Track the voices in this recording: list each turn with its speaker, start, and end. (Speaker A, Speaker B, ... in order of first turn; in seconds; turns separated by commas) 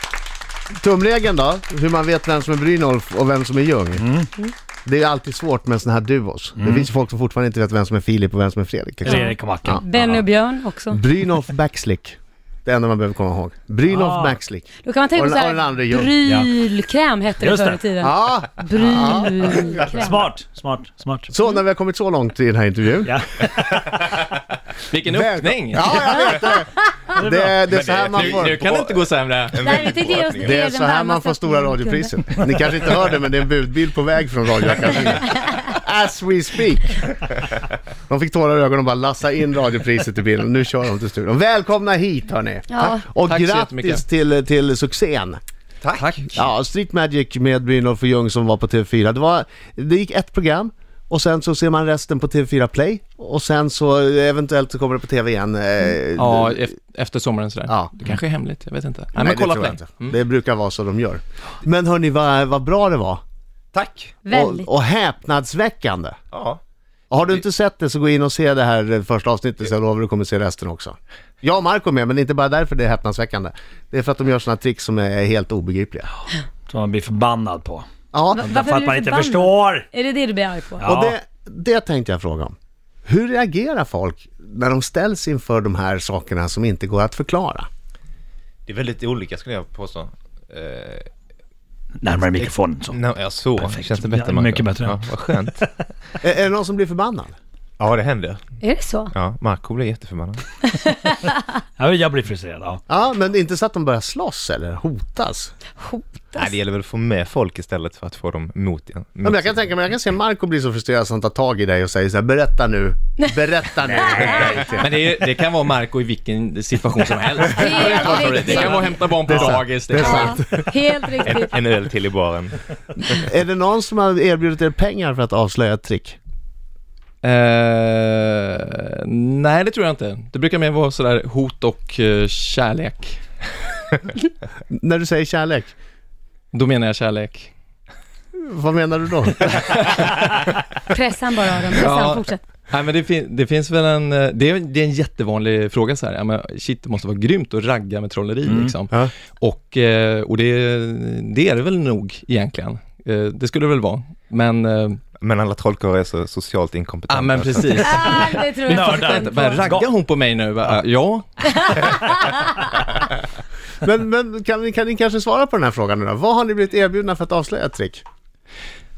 Speaker A: 0.8-4.0, Speaker B: 4.0-4.3, Speaker A: 4.9-9.8, Speaker B: 6.6-6.9, Speaker C: 9.1-11.0, Speaker B: 9.1-10.2, Speaker A: 10.9-16.1, Speaker B: 13.9-14.4, Speaker C: 14.8-20.3, Speaker B: 16.2-16.5, Speaker B: 17.4-17.8, Speaker A: 18.0-19.3, Speaker B: 19.9-21.3, Speaker A: 21.3-23.2, Speaker B: 23.1-23.8, Speaker D: 24.9-26.2, Speaker A: 25.1-28.6, Speaker B: 27.2-27.6, Speaker E: 27.7-30.6, Speaker D: 28.1-29.7, Speaker C: 29.6-32.1, Speaker A: 30.4-37.0, Speaker C: 34.9-35.7, Speaker A: 38.1-45.4, Speaker C: 42.7-43.1, Speaker D: 43.2-44.0, Speaker E: 45.8-46.1, Speaker D: 45.9-46.4, Speaker A: 46.4-56.7, Speaker D: 56.2-60.1, Speaker A: 57.7-57.9, Speaker A: 59.2-63.2, Speaker E: 63.7-64.2, Speaker C: 64.2-64.7, Speaker A: 64.3-66.2, Speaker E: 66.3-66.6, Speaker A: 67.1-76.1, Speaker B: 76.7-77.8, Speaker A: 78.1-78.5, Speaker C: 78.3-80.9, Speaker B: 78.4-79.9, Speaker B: 80.8-81.2, Speaker A: 80.8-82.5, Speaker A: 83.1-87.7, Speaker E: 88.7-91.1, Speaker B: 92.0-93.0, Speaker E: 92.1-95.7, Speaker B: 93.5-95.7, Speaker A: 96.2-97.3, Speaker E: 97.8-98.5, Speaker C: 98.6-99.1, Speaker E: 99.1-100.5, Speaker C: 100.7-101.4, Speaker B: 101.8-102.8, Speaker A: 102.9-105.5, Speaker C: 105.8-106.6, Speaker E: 106.3-109.6, Speaker A: 109.2-114.9, Speaker C: 114.0-114.7, Speaker D: 114.8-120.4, Speaker C: 117.4-119.0, Speaker A: 117.9-120.7, Speaker C: 119.9-121.6, Speaker E: 121.2-123.2, Speaker A: 123.1-126.2, Speaker D: 127.2-133.2, Speaker A: 134.7-135.7, Speaker D: 136.5-137.5, Speaker A: 138.4-139.8, Speaker D: 139.7-140.4, Speaker C: 140.9-142.4, Speaker D: 141.7-155.0, Speaker B: 148.5-148.8, Speaker E: 155.2-158.4, Speaker D: 157.1-161.7, Speaker C: 157.7-159.7, Speaker B: 158.7-159.9, Speaker C: 161.4-162.7, Speaker A: 163.8-168.0